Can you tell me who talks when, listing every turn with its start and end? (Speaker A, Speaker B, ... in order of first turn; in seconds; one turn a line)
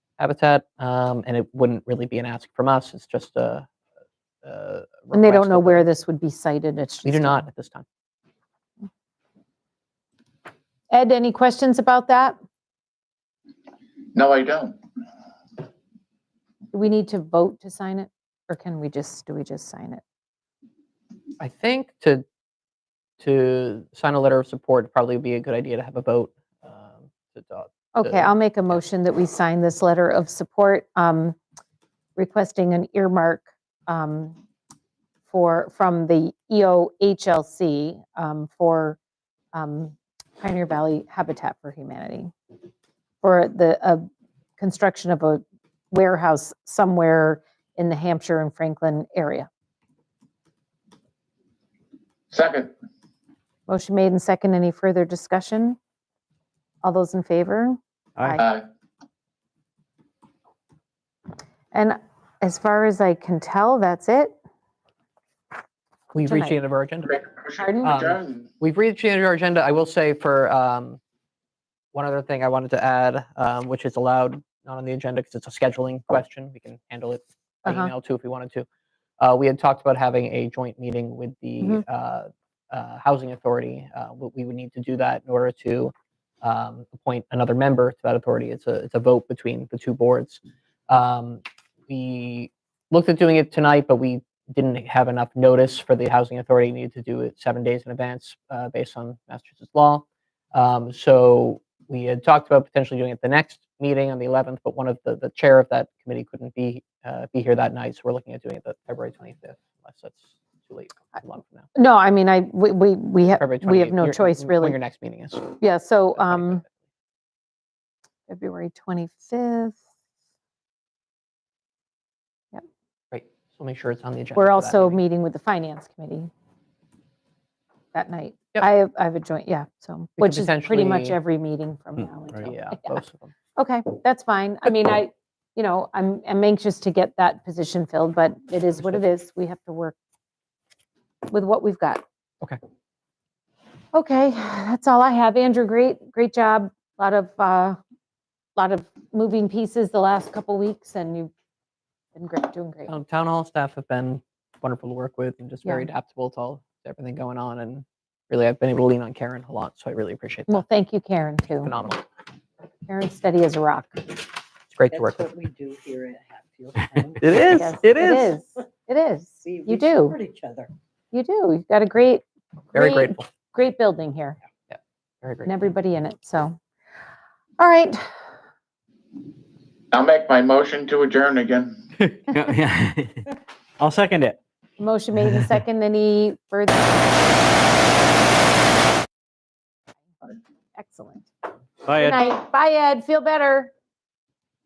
Speaker A: 0.2-3.7
Speaker A: 4.4-5.8
Speaker B: 5.1-7.4
Speaker A: 7.0-7.8
Speaker B: 10.9-12.3
Speaker C: 14.1-14.8
Speaker B: 16.7-20.0
Speaker A: 21.4-22.2
Speaker A: 23.2-28.3
Speaker B: 27.9-31.4
Speaker B: 32.2-34.4
Speaker B: 35.3-39.0
Speaker B: 39.5-42.3
Speaker B: 43.2-44.1
Speaker B: 44.6-49.5
Speaker C: 52.3-52.7
Speaker B: 53.7-55.8
Speaker B: 56.8-58.4
Speaker C: 58.4-58.6
Speaker B: 61.7-64.3
Speaker A: 66.1-67.1
Speaker B: 66.2-66.5
Speaker C: 67.1-68.5
Speaker B: 67.6-68.0
Speaker A: 67.8-71.0
Speaker A: 71.9-78.7
Speaker B: 77.7-77.9
Speaker A: 79.2-111.7
Speaker B: 111.7-114.8
Speaker A: 113.4-115.5
Speaker B: 115.6-116.6
Speaker A: 116.1-116.7
Speaker B: 118.3-119.8
Speaker A: 123.1-125.0
Speaker B: 124.3-126.3
Speaker B: 127.9-133.0
Speaker A: 130.2-131.2
Speaker A: 132.4-133.3
Speaker B: 133.6-139.9
Speaker B: 141.3-142.0
Speaker B: 143.9-147.8
Speaker B: 148.6-151.3
Speaker B: 152.1-152.9
Speaker A: 152.9-160.6
Speaker B: 160.5-161.7
Speaker A: 161.6-162.0
Speaker B: 162.9-164.1
Speaker A: 164.7-165.3
Speaker D: 164.9-167.7
Speaker A: 167.2-168.3
Speaker B: 167.4-170.2
Speaker D: 169.4-170.7
Speaker B: 171.1-174.4
Speaker A: 172.7-173.3
Speaker A: 174.7-175.6
Speaker B: 175.4-176.6
Speaker B: 177.6-178.1
Speaker C: 179.9-181.8
Speaker E: 182.1-183.2
Speaker E: 183.8-184.4
Speaker B: 184.8-187.3
Speaker B: 190.8-191.2
Speaker E: 191.9-192.2
Speaker B: 191.9-193.7